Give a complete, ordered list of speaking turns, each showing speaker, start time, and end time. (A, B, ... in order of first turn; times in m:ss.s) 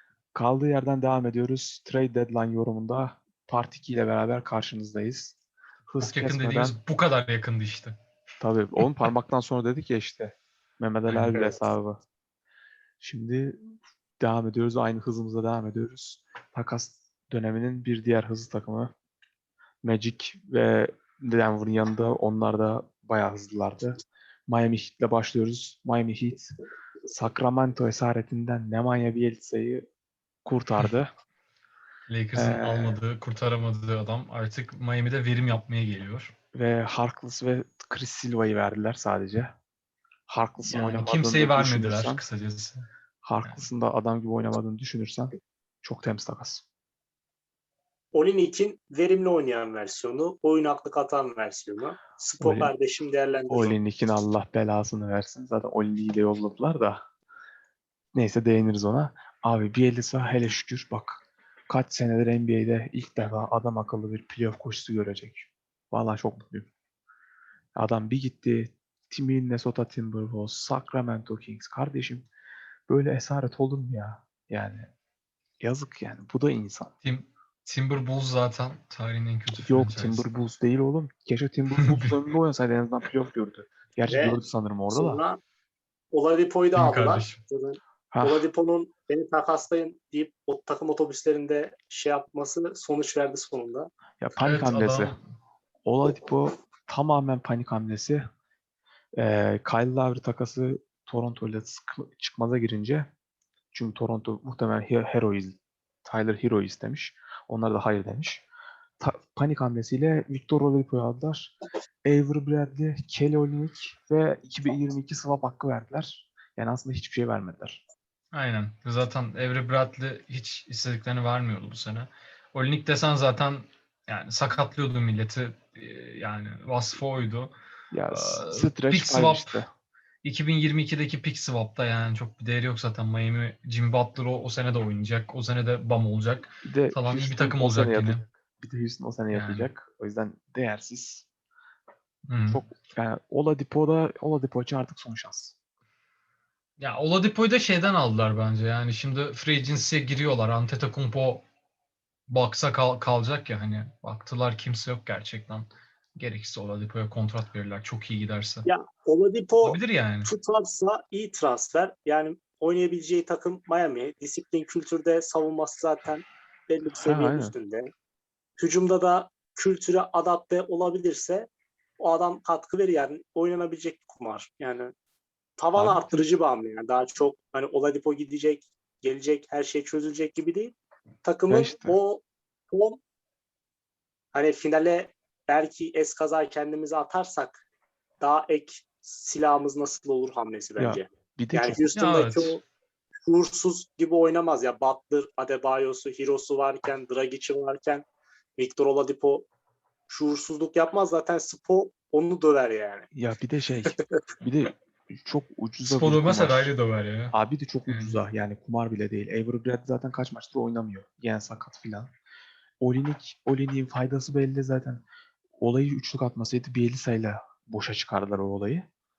0:00.4-0:05.4 A
0:05.9-0:06.8 A
0:06.0-0:08.0 B
0:08.4-0:12.0 A
0:11.1-0:11.6 B
0:13.0-0:13.6 A
0:14.2-0:18.9 A
0:19.8-0:26.5 A
0:27.1-0:29.9 A
0:30.4-0:31.1 A
0:32.1-0:36.3 B
0:32.4-0:33.0 A
0:36.5-0:39.6 A
0:40.3-0:42.2 A
0:40.7-0:42.9 B
0:43.2-0:46.6 A
0:48.1-0:53.8 C
0:52.4-0:52.7 A
0:53.5-0:57.0 A
0:58.1-1:06.7 A
1:07.8-1:12.3 A
1:12.9-1:14.9 A
1:15.6-1:16.9 A
1:17.0-1:20.3 B
1:19.6-1:25.2 A
1:21.8-1:22.1 B
1:24.1-1:25.4 C
1:26.1-1:33.9 C
1:26.8-1:27.4 B
1:28.1-1:28.5 A
1:34.2-1:35.2 A
1:34.4-1:35.2 B
1:35.9-1:38.3 A
1:39.2-1:43.1 A
1:43.7-1:48.4 A
1:49.0-1:57.8 A
1:58.3-2:07.5 B
2:07.9-2:09.7 A
2:08.1-2:09.5 B
2:10.2-2:18.2 B
2:16.6-2:21.3 A
2:19.3-2:19.7 B
2:22.3-2:22.6 B
2:22.5-2:25.6 A
2:26.8-2:31.4 B
2:32.3-2:38.7 B
2:38.7-2:47.9 C
2:39.6-2:40.3 B
2:47.0-2:47.5 A
2:48.6-2:51.5 C
2:52.0-2:54.9 C
2:55.6-3:03.0 C
2:55.8-2:56.3 A
3:01.5-3:02.0 A
3:04.3-3:07.6 C
3:08.2-3:12.6 C
3:10.8-3:11.9 A
3:11.9-3:12.6 B
3:13.2-3:18.0 C
3:18.6-3:19.5 C
3:20.1-3:23.1 C
3:23.1-3:26.7 A
3:23.8-3:24.2 C
3:25.9-3:27.4 B
3:27.3-3:32.1 A
3:27.9-3:28.2 B
3:32.8-3:35.0 A
3:35.6-3:38.8 A